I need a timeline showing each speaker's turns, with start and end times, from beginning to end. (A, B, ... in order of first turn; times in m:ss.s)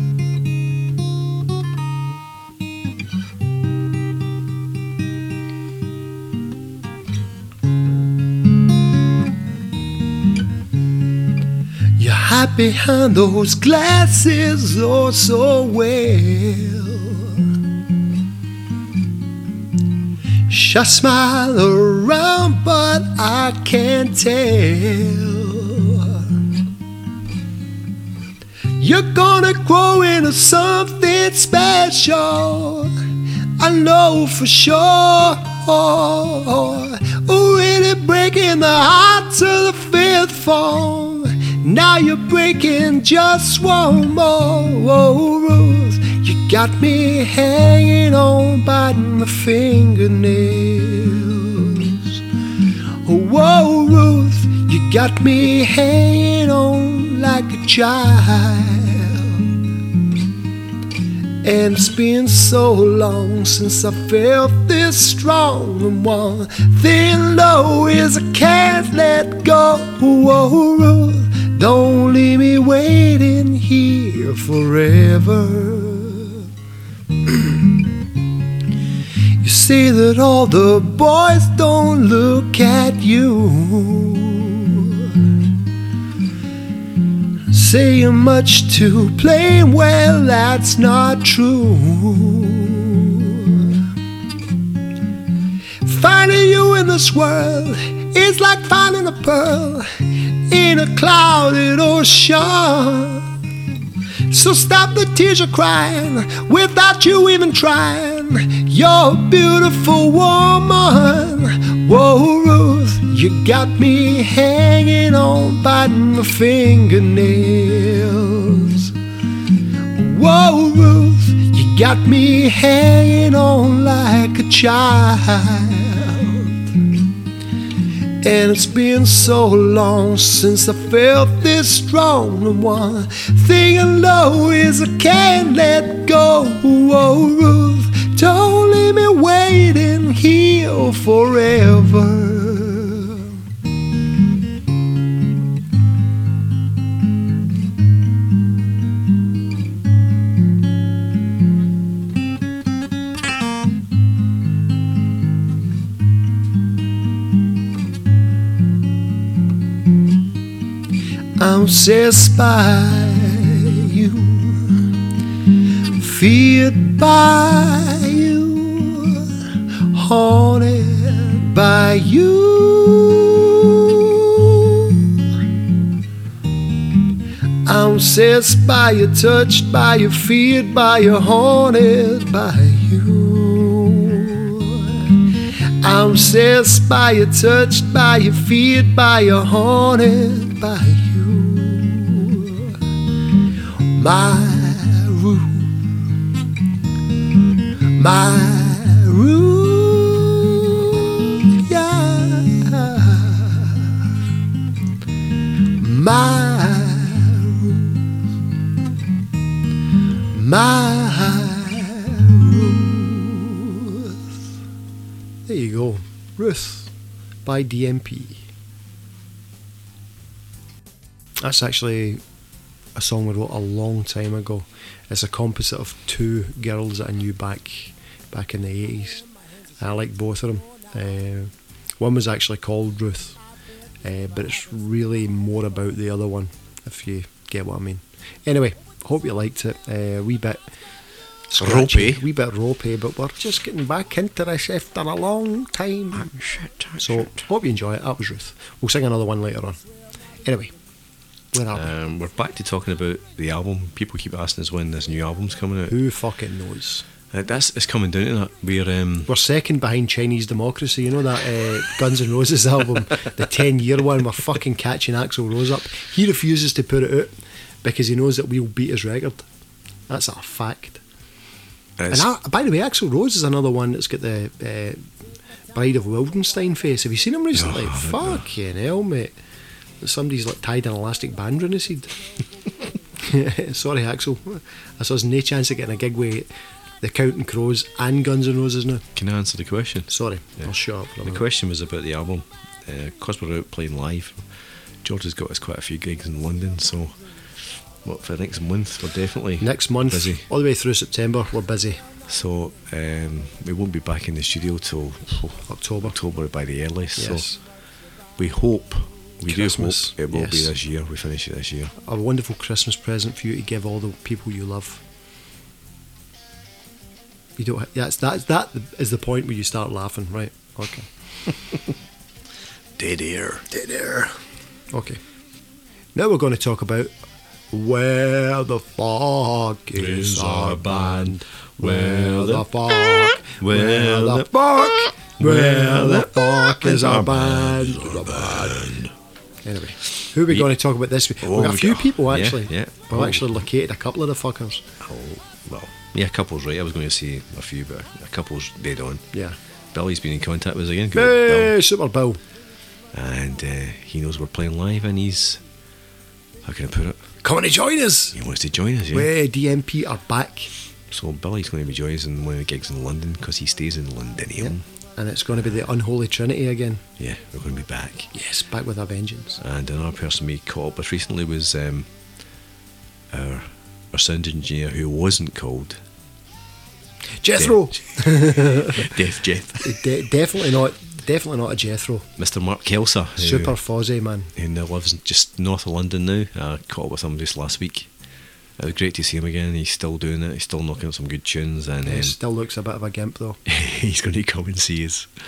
0:12.0-0:17.4 A
0:20.5-0:26.3 A
0:28.8-0:32.9 A
0:33.6-0:52.2 A
0:53.0-0:59.5 A
1:01.4-1:16.5 A
1:17.2-1:17.8 A
1:19.4-1:25.3 A
1:27.5-1:33.8 A
1:35.8-1:43.3 A
1:44.3-1:58.9 A
2:00.0-2:06.6 A
2:08.2-2:23.4 A
2:41.4-2:44.9 A
2:45.9-2:55.1 A
2:57.7-3:05.2 A
3:05.8-3:12.8 A
3:13.9-3:15.7 A
3:18.0-3:24.0 A
3:25.8-3:28.0 A
3:30.3-3:34.2 A
3:35.5-3:36.9 A
3:37.5-3:38.4 A
3:41.4-3:42.2 A
3:43.0-3:49.3 A
3:49.8-3:53.4 A
3:54.0-4:00.6 A
4:01.5-4:06.4 A
4:01.6-4:02.3 B
4:06.2-4:07.3 B
4:07.0-4:09.8 A
4:10.5-4:10.7 A
4:11.5-4:11.9 A
4:11.7-4:16.0 B
4:15.9-4:17.0 A
4:17.3-4:19.3 B
4:19.3-4:27.3 A
4:27.8-4:29.4 A
4:30.1-4:31.0 A
4:32.0-4:32.3 B
4:32.1-4:35.0 A
4:35.8-4:39.3 A
4:37.6-4:38.4 B
4:40.0-4:42.1 A
4:43.2-4:46.5 A
4:47.0-4:49.1 A
4:49.2-4:50.1 B
4:50.1-4:51.4 A
4:51.2-4:54.4 B
4:55.0-4:57.2 B
4:58.0-5:00.5 B
4:59.6-5:02.0 A
5:02.3-5:07.5 B
5:05.7-5:06.2 A
5:07.2-5:07.6 A
5:08.4-5:11.9 B
5:09.5-5:10.7 A
5:12.0-5:15.0 A
5:17.6-5:21.1 A
5:23.0-5:23.8 B
5:23.7-5:24.3 A
5:24.9-5:25.2 A
5:26.1-5:27.1 A
5:27.7-5:38.8 A
5:30.0-5:39.1 B
5:39.6-5:44.8 A
5:41.4-5:43.7 B
5:45.0-5:49.3 B
5:49.9-5:51.8 B
5:51.1-5:52.4 A
5:53.1-5:55.6 B
5:56.6-5:57.2 B
5:57.4-5:58.4 A
5:58.3-5:59.3 B
5:59.1-6:00.7 A
6:01.1-6:04.8 B
6:04.6-6:07.0 A
6:07.2-6:08.3 B
6:08.3-6:09.6 A
6:09.6-6:12.1 B
6:13.3-6:16.0 B
6:17.4-6:19.1 A
6:18.8-6:20.0 B
6:19.8-6:22.3 A
6:22.4-6:23.8 B
6:23.4-6:24.5 A
6:24.6-6:28.1 B
6:28.8-6:32.4 B
6:32.0-6:33.6 A
6:33.7-6:35.3 B